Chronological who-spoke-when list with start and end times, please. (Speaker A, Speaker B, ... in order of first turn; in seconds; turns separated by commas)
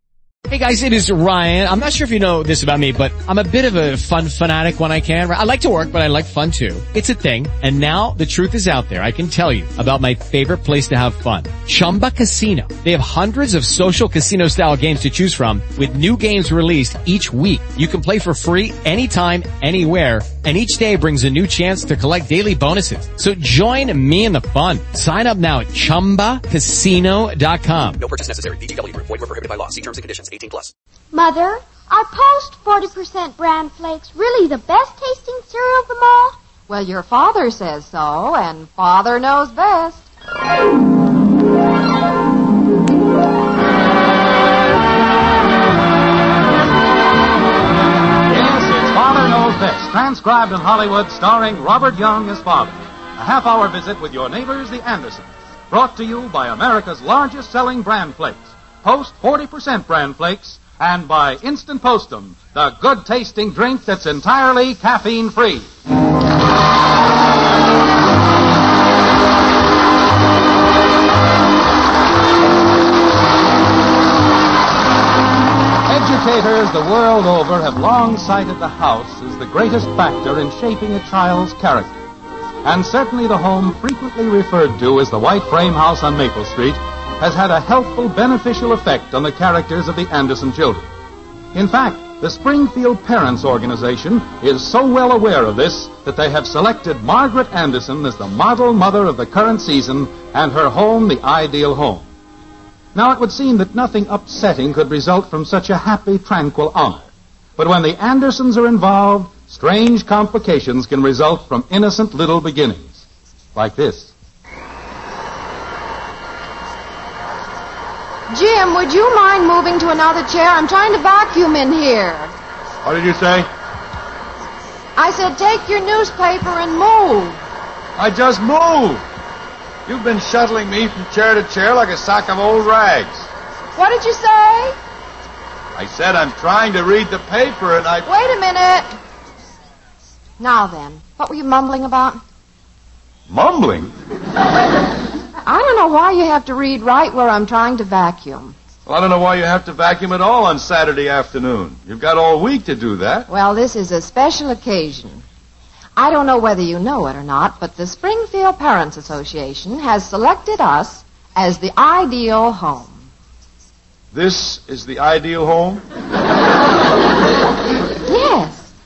Speaker A: 0.5-28.0, Speaker B: 28.0-30.7, Speaker C: 31.1-36.4, Speaker D: 36.7-40.0, Speaker E: 48.3-65.7, Speaker E: 75.9-81.9, Speaker E: 82.6-90.9, Speaker E: 91.5-102.1, Speaker E: 102.9-113.0, Speaker E: 113.5-114.1, Speaker D: 118.3-122.3, Speaker F: 122.8-123.5, Speaker D: 125.0-127.4, Speaker F: 128.0-129.0, Speaker F: 129.8-133.3, Speaker D: 133.8-134.8, Speaker F: 135.7-138.1, Speaker D: 138.1-138.9, Speaker D: 140.4-142.2, Speaker F: 143.3-143.9, Speaker D: 145.4-148.6, Speaker F: 148.8-153.3, Speaker D: 153.3-155.2, Speaker D: 155.9-163.1, Speaker F: 164.1-165.8, Speaker D: 168.1-168.7